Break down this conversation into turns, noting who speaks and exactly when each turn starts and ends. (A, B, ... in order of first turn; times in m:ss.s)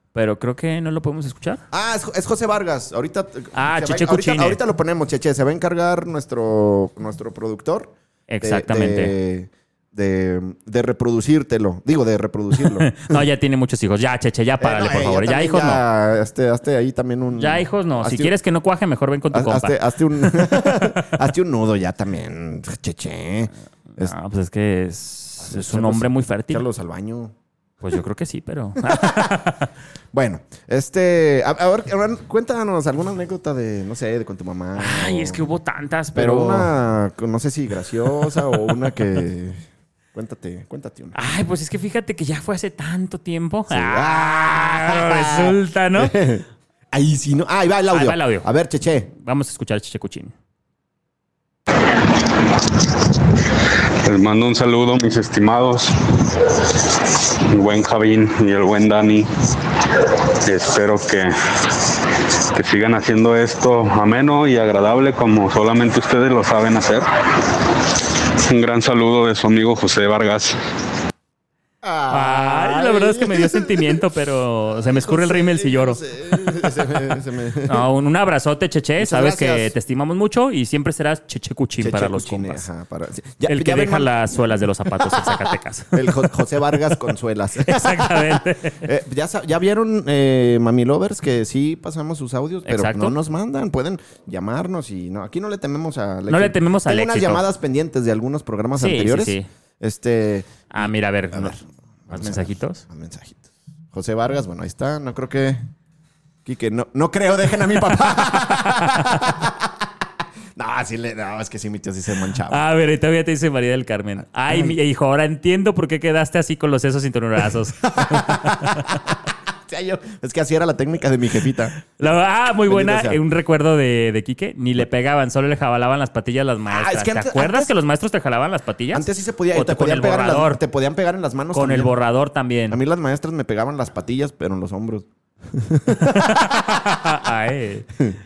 0:00.1-0:01.6 A
0:01.7-0:13.2 B
0:03.5-0:04.6 A
0:08.3-0:09.1 A
0:12.6-0:15.8 A
0:14.6-0:18.3 B
0:17.3-0:21.1 A
0:19.3-0:24.1 B
0:24.0-0:26.6 A
0:25.4-0:27.3 B
0:27.8-0:29.6 A
0:28.8-0:29.4 B
0:30.1-0:35.4 B
0:34.8-0:36.7 A
0:36.1-0:39.6 B
0:38.2-0:38.7 A
0:40.1-0:41.2 B
0:41.1-0:46.2 A
0:43.7-0:49.1 B
0:47.9-0:48.5 A
0:49.1-0:50.3 A
0:52.7-0:53.0 C
0:54.0-0:56.8 C
0:57.5-0:59.3 C
1:00.4-1:01.3 C
1:02.5-1:07.1 C
1:08.5-1:10.6 C
1:11.8-1:14.0 B
1:12.1-1:16.0 A
1:14.7-1:17.8 B
1:17.7-1:22.6 A
1:19.0-1:19.7 B
1:21.8-1:45.6 B
1:23.4-1:27.0 A
1:27.6-1:28.8 A
1:32.6-1:33.1 A
1:36.3-1:37.4 A
1:38.8-1:39.5 A
1:40.7-1:41.6 A
1:42.1-1:42.8 A
1:46.4-1:49.8 B
1:48.4-1:49.3 A
1:50.6-1:52.6 B
1:52.5-1:58.9 A
1:54.5-1:54.8 B
1:57.8-2:02.1 B
2:02.0-2:10.6 A
2:02.6-2:03.2 B
2:06.7-2:07.7 B
2:08.9-2:11.9 B
2:11.5-2:12.8 A
2:12.7-2:16.9 B
2:16.0-2:17.9 A